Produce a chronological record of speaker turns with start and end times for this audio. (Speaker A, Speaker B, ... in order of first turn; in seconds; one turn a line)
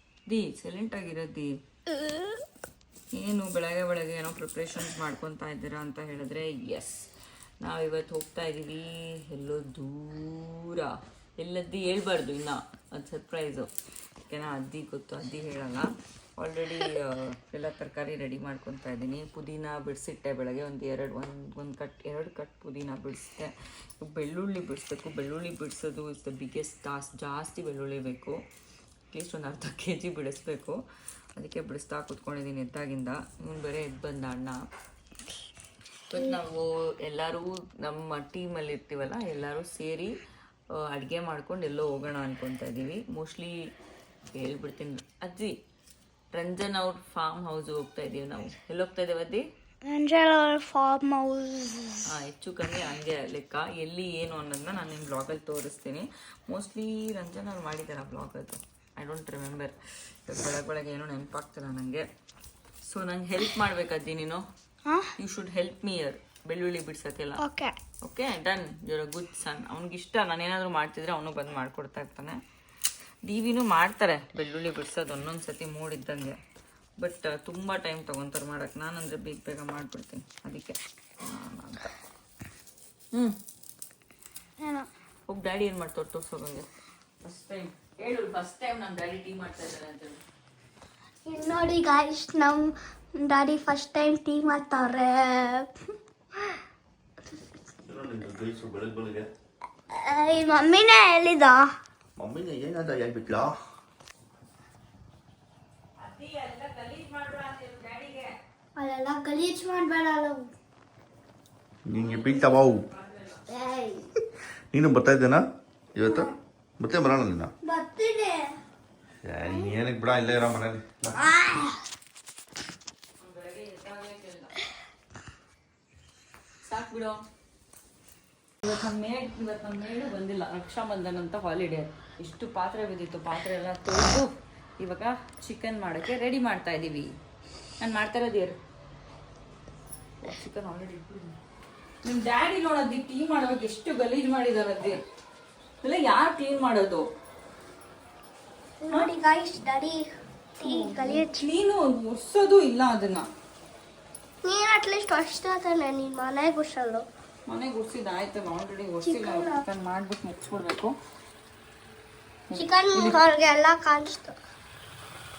Speaker A: 0.3-1.6
Speaker A: 3.1-7.1
Speaker A: 7.6-13.7
Speaker A: 14.3-28.4
Speaker A: 29.1-30.8
Speaker A: 31.4-34.6
Speaker A: 36.1-40.1
Speaker A: 40.8-43.6
Speaker A: 44.3-45.5
Speaker A: 46.3-49.4
Speaker B: 49.9-52.0
Speaker A: 52.0-62.0
Speaker A: 62.8-64.5
Speaker A: 65.2-67.4
Speaker B: 67.4-67.8
Speaker A: 68.0-72.4
Speaker A: 73.2-76.3
Speaker A: 77.0-81.9
Speaker A: 85.3-86.7
Speaker A: 87.2-90.2
Speaker B: 91.2-95.7
Speaker C: 97.8-99.3
Speaker B: 99.9-101.7
Speaker C: 102.2-103.5
Speaker A: 106.0-108.4
Speaker B: 108.8-110.5
Speaker C: 111.8-112.9
Speaker A: 112.1-112.7
Speaker B: 113.5-114.1
Speaker C: 114.7-115.4
Speaker C: 115.9-117.5
Speaker B: 116.0-116.3
Speaker B: 117.6-118.5
Speaker C: 119.2-121.2
Speaker B: 119.4-119.7
Speaker B: 121.2-121.7
Speaker A: 123.2-124.6
Speaker A: 126.6-127.2
Speaker A: 128.6-137.1
Speaker A: 137.8-138.6
Speaker A: 140.2-141.3
Speaker A: 142.0-145.0
Speaker A: 145.8-147.1
Speaker B: 148.8-150.1
Speaker B: 150.6-151.4
Speaker A: 150.6-153.3
Speaker B: 154.4-157.0
Speaker A: 157.5-160.9
Speaker B: 159.0-159.6
Speaker A: 162.5-163.2
Speaker B: 162.5-164.3